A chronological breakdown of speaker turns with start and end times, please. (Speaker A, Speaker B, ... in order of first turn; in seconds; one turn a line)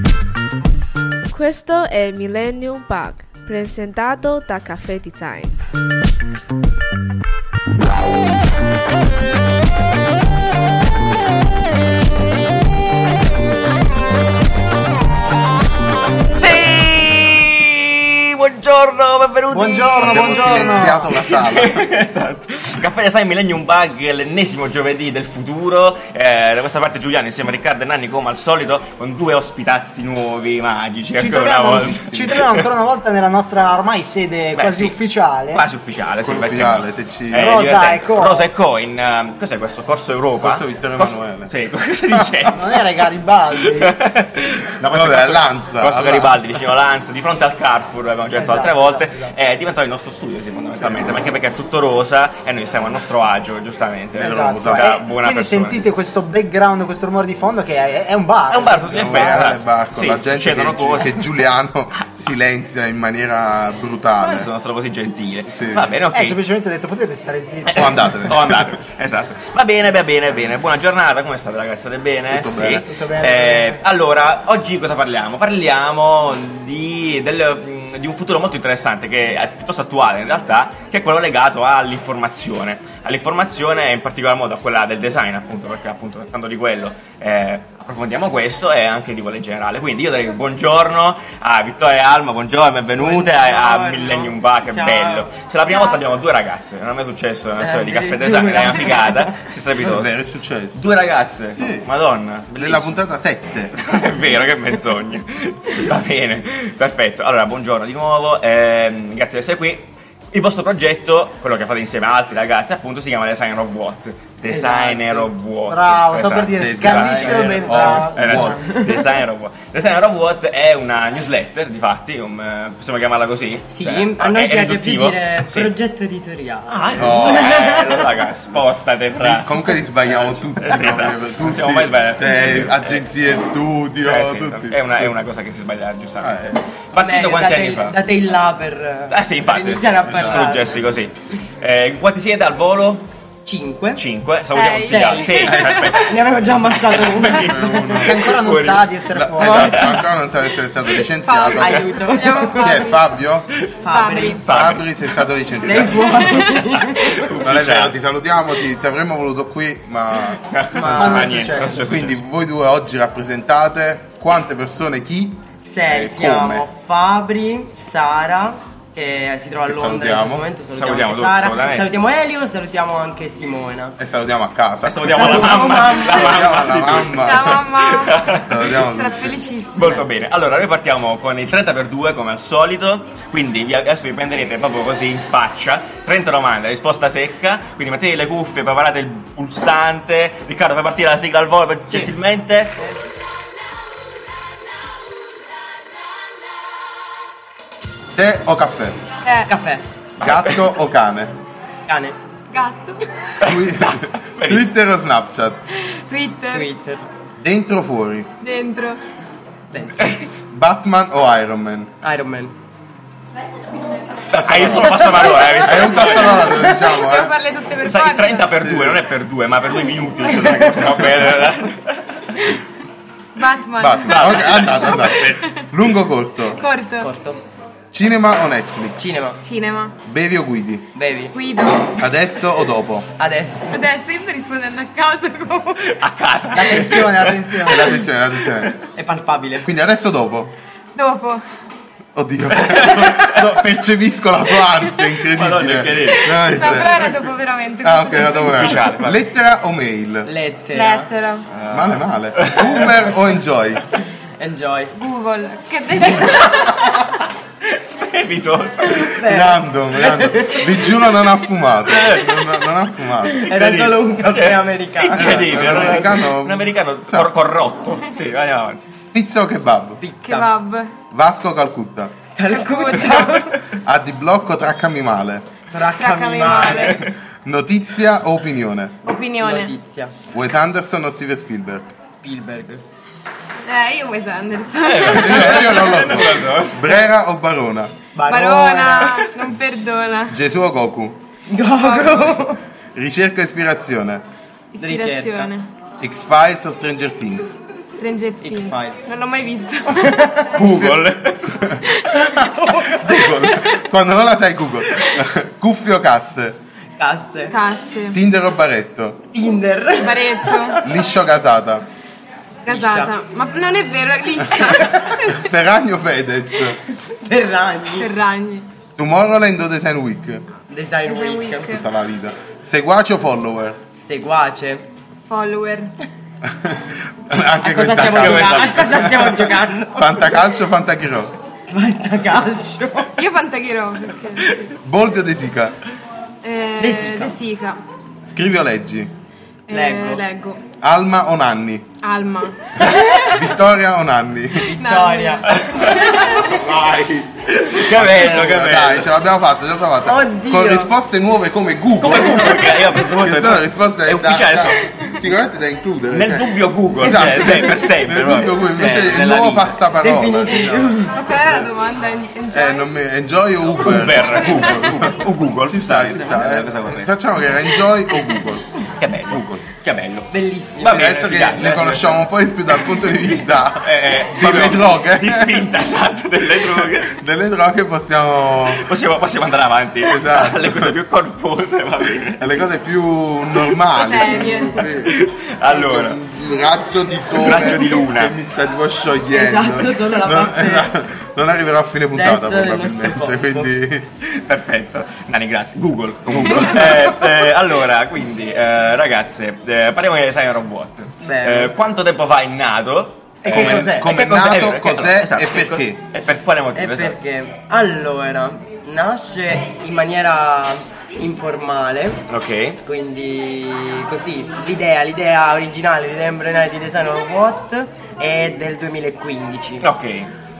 Speaker A: 1.3-5.5
Speaker B: 16.3-32.6
Speaker C: 19.5-21.1
Speaker D: 20.0-21.9
Speaker C: 31.2-35.6
Speaker B: 34.5-35.0
Speaker B: 35.5-55.9
Speaker D: 36.2-37.6
Speaker C: 37.4-38.5
Speaker D: 40.4-41.5
Speaker C: 42.5-44.0
Speaker D: 44.9-46.6
Speaker C: 48.4-49.3
Speaker D: 50.8-51.2
Speaker D: 54.2-55.0
Speaker E: 54.2-55.0
Speaker C: 55.1-59.5
Speaker B: 58.5-61.2
Speaker D: 58.9-64.5
Speaker B: 64.2-66.4
Speaker D: 65.5-65.9
Speaker C: 66.1-68.2
Speaker B: 67.6-100.1
Speaker D: 67.7-68.7
Speaker D: 72.3-72.8
Speaker C: 72.8-73.8
Speaker E: 93.0-95.3
Speaker F: 95.7-96.0
Speaker E: 97.6-99.4
Speaker D: 99.8-100.8
Speaker B: 100.7-103.0
Speaker D: 101.5-101.8
Speaker D: 102.5-103.8
Speaker B: 103.7-125.7
Speaker E: 114.5-115.3
Speaker C: 115.7-119.1
Speaker D: 116.6-118.8
Speaker E: 123.7-128.1
Speaker B: 126.7-133.0
Speaker D: 127.0-127.5
Speaker D: 129.2-135.1
Speaker B: 134.0-138.0
Speaker D: 136.2-136.6
Speaker E: 136.9-140.8
Speaker B: 139.1-143.1
Speaker D: 140.1-140.5
Speaker E: 143.4-144.0
Speaker B: 144.0-148.9
Speaker F: 144.5-146.0
Speaker E: 144.8-148.1
Speaker D: 147.4-148.3
Speaker C: 148.0-149.9
Speaker D: 149.1-151.8
Speaker E: 149.4-150.0
Speaker F: 151.2-153.0
Speaker E: 151.5-152.8
Speaker D: 152.6-153.5
Speaker B: 153.6-157.9
Speaker E: 153.8-154.4
Speaker F: 153.9-154.4
Speaker D: 154.4-156.2
Speaker E: 155.5-157.3
Speaker F: 156.1-156.8
Speaker D: 157.4-160.4
Speaker B: 160.3-162.2
Speaker E: 160.7-161.3
Speaker C: 160.8-161.8
Speaker D: 161.7-166.6
Speaker E: 165.6-174.0
Speaker D: 169.7-170.5
Speaker B: 170.7-171.9
Speaker D: 174.0-177.6
Speaker B: 174.8-178.6
Speaker E: 175.1-176.6
Speaker F: 177.1-180.0
Speaker D: 178.4-179.4
Speaker B: 179.7-192.8
Speaker D: 198.1-199.0
Speaker F: 199.2-199.5
Speaker E: 199.5-199.8
Speaker D: 200.2-201.3
Speaker B: 200.2-200.6
Speaker E: 201.9-202.2
Speaker F: 202.5-203.3
Speaker B: 203.4-204.7
Speaker D: 203.4-205.6
Speaker F: 205.8-206.7
Speaker E: 206.5-207.1
Speaker D: 207.4-208.3
Speaker F: 208.4-209.0
Speaker E: 209.7-210.2
Speaker D: 210.5-211.9
Speaker E: 212.0-212.5
Speaker B: 214.3-216.5
Speaker D: 214.3-217.3
Speaker E: 215.2-215.7
Speaker F: 216.4-218.5
Speaker B: 217.8-222.5
Speaker D: 218.6-219.0
Speaker F: 223.3-225.7
Speaker D: 223.8-226.6
Speaker B: 224.1-225.4
Speaker F: 226.6-227.1
Speaker E: 227.0-227.4
Speaker D: 227.9-229.0
Speaker E: 229.0-229.4
Speaker F: 229.4-229.9
Speaker D: 230.1-230.9
Speaker E: 230.9-231.3
Speaker F: 231.3-232.0
Speaker D: 231.8-233.1
Speaker E: 233.2-233.8
Speaker F: 233.7-236.0
Speaker B: 235.9-238.7
Speaker C: 236.5-238.0
Speaker D: 237.7-238.7
Speaker E: 238.9-239.7
Speaker D: 239.6-240.5
Speaker F: 240.9-241.4
Speaker D: 242.1-247.1
Speaker B: 242.5-243.4
Speaker B: 245.3-247.1
Speaker F: 246.1-248.8
Speaker D: 247.8-250.3
Speaker B: 248.4-249.2
Speaker E: 250.2-251.1
Speaker F: 250.7-251.5
Speaker B: 251.5-253.0
Speaker D: 251.7-253.8
Speaker E: 254.4-254.9
Speaker F: 254.9-257.0
Speaker B: 257.6-259.2
Speaker E: 258.9-260.6
Speaker D: 259.2-263.5
Speaker B: 261.9-262.7
Speaker E: 263.3-265.8
Speaker B: 263.4-268.8
Speaker D: 265.1-267.3
Speaker D: 269.1-270.0
Speaker E: 270.0-270.5
Speaker F: 270.2-270.9
Speaker D: 271.1-272.1
Speaker E: 272.4-273.6
Speaker F: 272.6-273.5
Speaker D: 273.8-275.4
Speaker E: 275.7-277.0
Speaker F: 276.0-277.1
Speaker B: 276.8-277.1
Speaker D: 277.4-278.9
Speaker F: 279.0-279.7
Speaker E: 279.4-280.1
Speaker D: 280.3-281.9
Speaker E: 282.1-282.8
Speaker F: 283.6-285.8
Speaker B: 284.8-286.8
Speaker D: 285.1-287.9
Speaker E: 288.1-289.2
Speaker F: 288.3-290.4
Speaker D: 290.3-291.2
Speaker E: 291.5-292.6
Speaker F: 291.8-292.4
Speaker D: 292.9-294.2
Speaker F: 294.7-295.7
Speaker E: 294.8-295.5
Speaker D: 296.0-297.6
Speaker F: 297.9-300.6
Speaker E: 298.4-299.0
Speaker E: 299.9-300.5
Speaker D: 300.5-302.4
Speaker B: 300.6-301.7
Speaker F: 302.1-302.6
Speaker D: 303.0-306.6
Speaker F: 303.3-303.8
Speaker E: 307.0-307.6
Speaker F: 307.5-308.2
Speaker D: 308.1-309.2
Speaker E: 309.3-310.8
Speaker F: 310.0-310.8
Speaker D: 310.8-311.8
Speaker F: 312.6-315.5
Speaker E: 312.7-313.1
Speaker E: 314.5-315.2
Speaker D: 315.3-316.8
Speaker E: 317.0-318.1
Speaker F: 318.0-318.7
Speaker D: 319.0-320.4
Speaker E: 320.7-321.8
Speaker F: 321.0-321.8
Speaker D: 321.7-323.8
Speaker E: 323.9-324.8
Speaker F: 325.3-325.9
Speaker D: 326.4-329.4
Speaker E: 327.6-330.3
Speaker B: 327.9-329.4
Speaker D: 329.9-331.3
Speaker E: 331.7-333.2
Speaker F: 333.1-334.7
Speaker D: 334.8-335.8
Speaker F: 336.4-337.8
Speaker E: 336.8-337.4
Speaker D: 338.2-339.1
Speaker F: 339.7-340.6
Speaker E: 339.7-340.2
Speaker D: 340.8-341.9
Speaker F: 342.0-343.4
Speaker D: 343.2-344.7
Speaker E: 344.6-346.5
Speaker F: 344.7-346.5
Speaker B: 345.5-345.9
Speaker D: 346.3-361.7
Speaker B: 347.5-349.1
Speaker E: 350.0-350.9
Speaker B: 352.0-354.9
Speaker B: 356.1-359.8
Speaker E: 360.0-361.2
Speaker F: 361.0-362.9
Speaker D: 362.5-368.6
Speaker B: 363.8-367.2
Speaker B: 369.0-372.2
Speaker D: 369.3-369.6
Speaker E: 370.3-371.0
Speaker D: 370.9-375.7
Speaker B: 372.9-377.2
Speaker D: 376.8-378.8
Speaker B: 378.6-382.5
Speaker D: 380.0-380.9
Speaker D: 382.4-394.1
Speaker F: 383.9-385.0
Speaker B: 384.9-386.2
Speaker B: 387.4-388.4
Speaker E: 389.3-390.9
Speaker E: 392.1-393.7
Speaker B: 394.2-407.2
Speaker D: 396.3-396.7
Speaker E: 396.4-397.3
Speaker E: 401.2-401.7
Speaker E: 403.4-404.2
Speaker D: 403.4-406.0
Speaker E: 406.7-412.2
Speaker B: 412.3-412.8
Speaker E: 412.8-419.9
Speaker B: 419.8-420.3